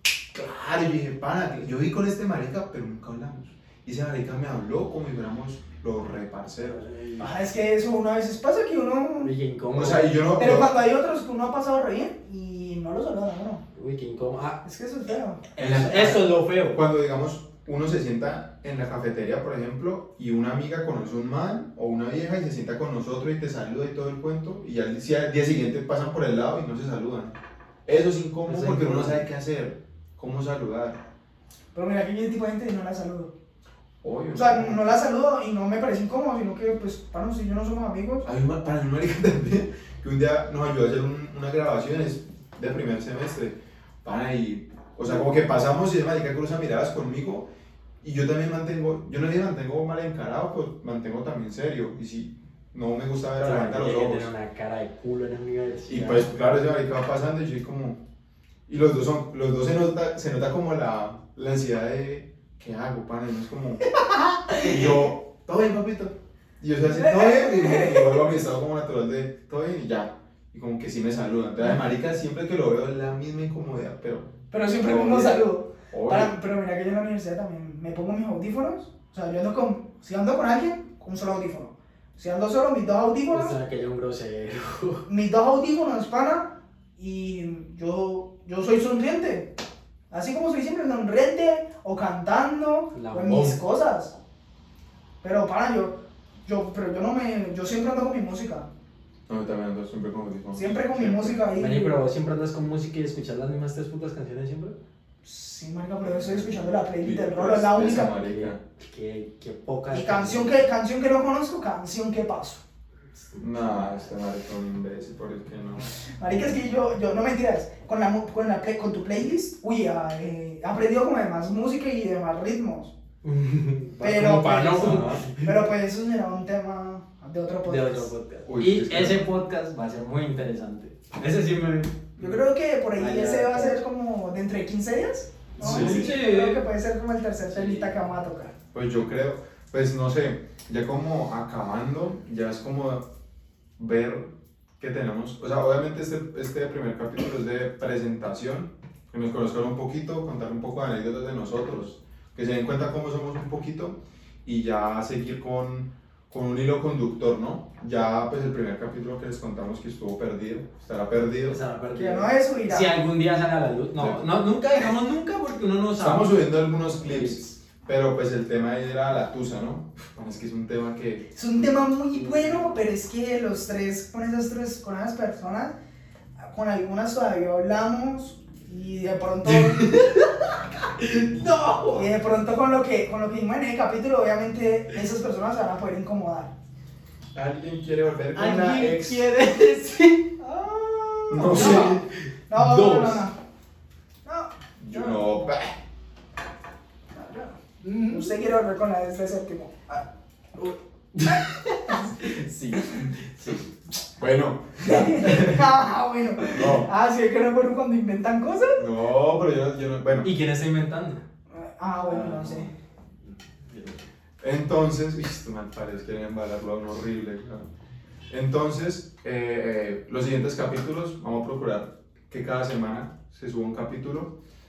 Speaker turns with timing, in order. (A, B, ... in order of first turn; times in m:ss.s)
0:00.3-0:06.8 A
0:06.6-0:07.3 B
0:07.2-0:09.3 C
0:09.2-0:10.2 B
0:09.7-0:10.7 A
0:10.4-0:13.6 C
0:13.7-0:14.6 B
0:14.6-0:15.6 C
0:15.6-0:16.8 B
0:15.6-0:27.3 A
0:27.8-0:31.0 A
0:28.4-0:29.2 B
0:31.7-0:33.3 C
0:34.0-0:34.9 A
0:34.3-0:38.3 C
0:38.2-0:47.5 A
0:48.0-0:54.3 A
0:53.4-0:56.3 B
0:55.9-0:58.0 A
0:58.7-1:03.8 A
1:04.0-1:04.6 C
1:04.6-1:16.3 A
1:06.8-1:08.3 C
1:14.5-1:23.6 C
1:23.3-1:25.0 B
1:25.1-1:29.5 C
1:30.1-1:34.1 C
1:32.9-1:33.6 B
1:35.2-1:38.7 C
1:39.3-1:41.4 A
1:40.5-1:42.0 C
1:41.5-1:44.8 B
1:45.2-1:48.2 C
1:46.0-1:48.6 A
1:48.1-1:50.6 B
1:49.9-1:52.6 C
1:53.1-1:54.1 B
1:53.4-1:55.9 A
1:55.9-2:02.9 C
2:03.2-2:05.6 B
2:04.0-2:08.1 C
2:04.7-2:05.2 A
2:07.6-2:13.8 B
2:08.4-2:09.2 A
2:12.2-2:18.5 C
2:15.6-2:16.6 B
2:15.6-2:16.1 A
2:17.5-2:17.9 B
2:18.7-2:23.0 A
2:23.8-2:41.6 A
2:41.5-2:46.4 B
2:41.9-2:42.9 C
2:44.0-2:44.3 A
2:46.0-2:51.2 A
2:47.0-2:47.4 B
2:51.3-2:55.7 C
2:52.2-2:52.7 B
2:56.4-2:59.9 C
2:59.4-3:02.1 B
3:01.9-3:06.5 C
3:07.3-3:09.3 A
3:08.3-3:10.2 B
3:10.4-3:13.3 C
3:11.3-3:12.1 A
3:11.5-3:12.0 B
3:12.5-3:13.3 B
3:14.2-3:15.5 C
3:14.8-3:15.8 A
3:17.1-3:20.0 C
3:17.8-3:18.3 B
3:20.6-3:23.7 B
3:21.3-3:22.1 C
3:24.2-3:25.4 A
3:24.8-3:28.8 C
3:25.2-3:25.6 B
3:26.5-3:26.9 A
3:28.8-3:30.3 A
3:30.2-3:31.2 B
3:31.5-3:32.7 C
3:32.1-3:34.0 B
3:34.4-3:37.7 A
3:38.3-3:44.3 A